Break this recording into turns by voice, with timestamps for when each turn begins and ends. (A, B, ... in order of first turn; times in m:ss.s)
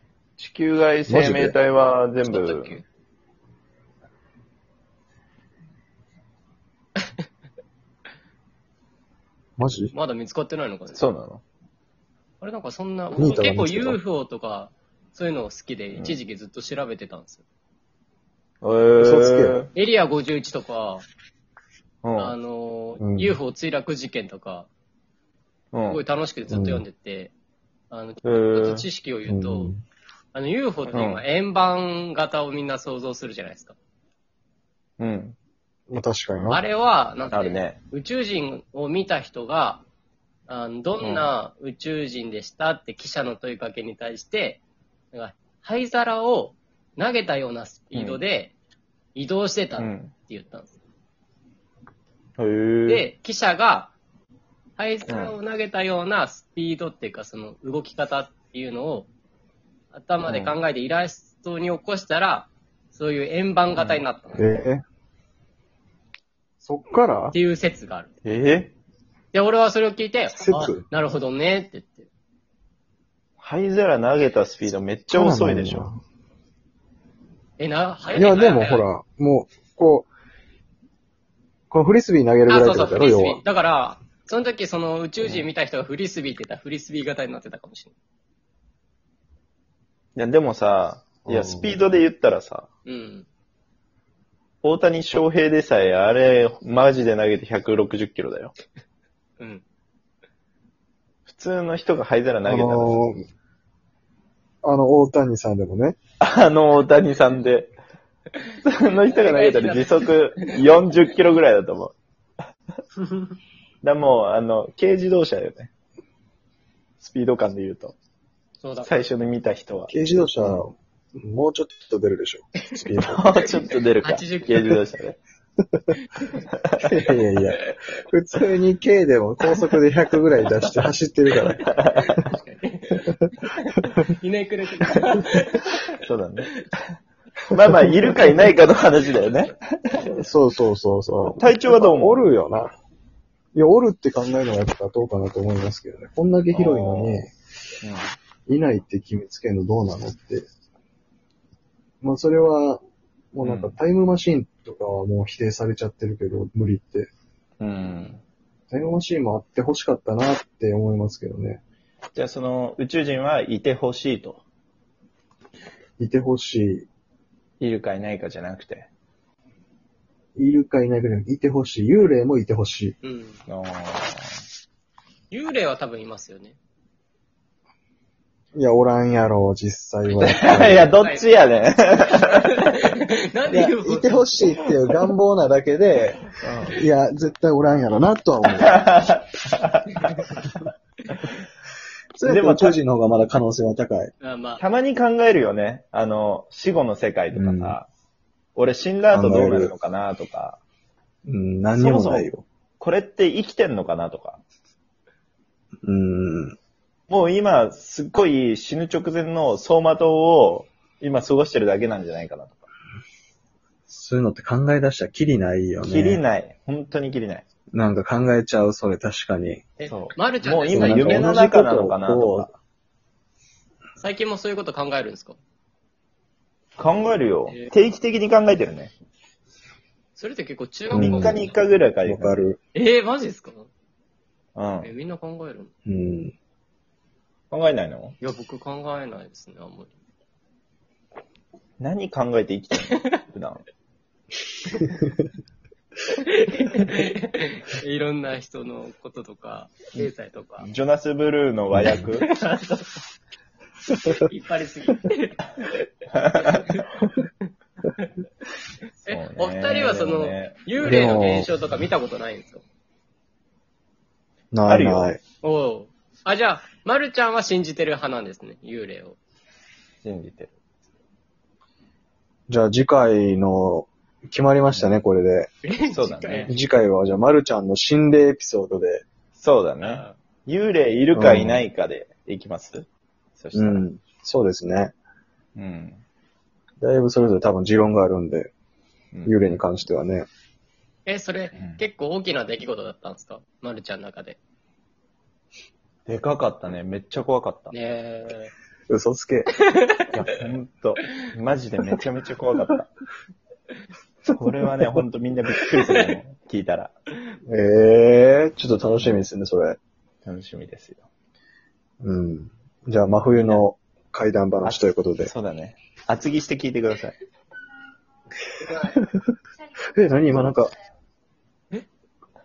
0:00.4-0:02.8 A
0:01.1-0:01.6 B
0:02.2-0:02.8 C
0:09.6-0:09.9 B
0:09.9-0:11.0 C
0:10.9-0:11.4 A
0:12.4-0:17.4 C
0:13.2-0:14.0 B
0:18.6-0:19.7 A
0:19.0-0:19.6 B
0:19.7-0:21.0 C
0:22.0-0:22.3 A
0:22.2-0:24.7 C
0:23.0-0:23.4 B
0:25.7-0:26.0 A
0:25.9-0:27.3 C
0:26.5-0:26.8 B
0:27.9-0:29.7 C
0:28.2-0:28.8 A
0:29.3-0:29.8 B
0:30.3-0:33.7 C
0:30.9-0:31.2 A
0:35.0-0:35.4 A
0:35.9-0:36.6 B
0:36.5-0:39.8 C
0:37.3-0:37.8 A
0:40.5-0:48.5 C
0:41.0-0:41.3 A
0:47.9-0:48.2 A
0:49.1-0:50.8 C
0:49.8-0:50.1 A
0:52.4-0:53.1 A
0:52.8-0:53.9 C
0:54.8-0:59.1 C
0:59.9-1:04.5 C
1:04.3-1:04.8 B
1:06.6-1:07.3 B
1:07.3-1:08.1 C
1:08.2-1:08.7 A
1:09.3-1:12.1 C
1:10.4-1:10.8 B
1:13.4-1:15.9 A
1:15.1-1:16.0 B
1:17.6-1:18.9 C
1:18.1-1:20.1 B
1:21.7-1:23.4 B
1:22.5-1:27.9 C
1:30.2-1:32.7 A
1:31.2-1:31.7 B
1:32.8-1:33.2 C
1:34.6-1:38.5 A
1:41.3-1:43.0 A
1:42.4-1:43.2 B
1:44.6-1:46.0 B
1:46.2-1:47.7 A
1:48.6-1:51.9 A
1:49.0-1:50.9 C
1:53.8-1:55.7 A
1:57.0-1:57.9 A
1:58.6-1:59.0 C
1:58.8-2:00.6 A
1:59.9-2:03.3 B
2:03.0-2:05.2 A
2:04.0-2:04.8 C
2:06.8-2:12.2 B
2:11.6-2:12.1 A
2:11.6-2:16.0 C
2:16.0-2:16.5 A
2:17.5-2:20.2 A
2:20.2-2:22.7 B
2:21.2-2:22.3 A
2:23.5-2:27.3 B
2:26.5-2:27.3 A
2:28.5-2:30.5 B
2:32.0-2:32.8 B
2:33.3-2:37.1 B
2:33.4-2:33.8 A
2:37.6-2:38.2 A
2:38.7-2:41.6 B
2:42.1-2:44.4 A
2:46.0-2:46.8 B
2:47.6-2:48.9 A
2:50.4-2:53.0 B
2:53.0-2:53.4 C
2:53.5-2:54.3 A
2:55.3-2:56.6 C
2:58.5-3:00.9 B
3:00.2-3:02.7 A
3:00.2-3:04.2 C
3:03.5-3:08.8 B
3:06.4-3:06.8 A
3:08.5-3:10.5 A
3:12.2-3:14.1 B
3:12.2-3:12.8 A
3:14.2-3:14.6 C
3:14.6-3:17.9 A
3:17.3-3:17.8 B
3:18.6-3:20.6 A
3:19.1-3:19.7 B
3:21.2-3:22.4 B
3:21.8-3:24.4 A
3:25.8-3:26.6 B
3:27.1-3:32.6 A
3:33.9-3:36.2 B
3:35.8-3:37.4 A
3:37.7-3:39.6 B
3:39.8-3:41.3 C
3:39.9-3:42.5 A
3:40.7-3:42.5 B
3:44.0-3:45.4 C
3:46.8-3:48.9 A
3:50.2-3:51.5 C
3:50.9-3:51.5 B
3:50.9-3:52.4 A
3:52.0-3:52.6 B
3:52.7-3:53.7 C
3:54.6-3:54.9 A
3:54.8-3:55.7 C
3:55.8-3:56.3 B
3:57.5-3:58.2 A
3:58.2-3:59.9 C
4:01.8-4:03.6 A
4:06.1-4:10.7 C
4:10.6-4:12.3 A
4:12.2-4:12.8 C
4:14.2-4:15.8 C
4:16.1-4:16.6 A
4:16.4-4:17.1 C
4:19.0-4:22.6 C
4:19.1-4:20.6 A
4:20.8-4:21.5 B
4:24.5-4:25.2 B
4:24.6-4:25.1 A
4:25.4-4:29.2 C
4:30.0-4:30.5 A
4:32.5-4:35.5 B
4:34.7-4:35.0 A
4:35.6-4:36.5 C
4:35.9-4:36.6 A
4:36.5-4:39.0 B
4:39.4-4:42.8 A
4:39.8-4:40.2 C
4:41.1-4:41.6 B
4:43.4-4:43.8 A
4:43.5-4:44.9 B
4:45.6-4:46.0 A
4:46.8-4:48.5 B
4:49.1-4:49.6 A
4:49.2-4:50.3 B
4:51.0-4:54.4 C
4:51.5-4:51.8 A
4:56.1-4:57.7 A
4:57.7-4:58.5 C
4:58.9-4:59.5 B
4:59.7-5:00.1 C
5:00.1-5:02.9 A
5:04.3-5:06.9 A
5:07.5-5:09.8 B
5:08.9-5:09.2 A
5:10.2-5:11.0 A
5:12.0-5:15.3 B
5:14.6-5:17.2 A
5:18.6-5:19.3 B
5:19.9-5:20.7 B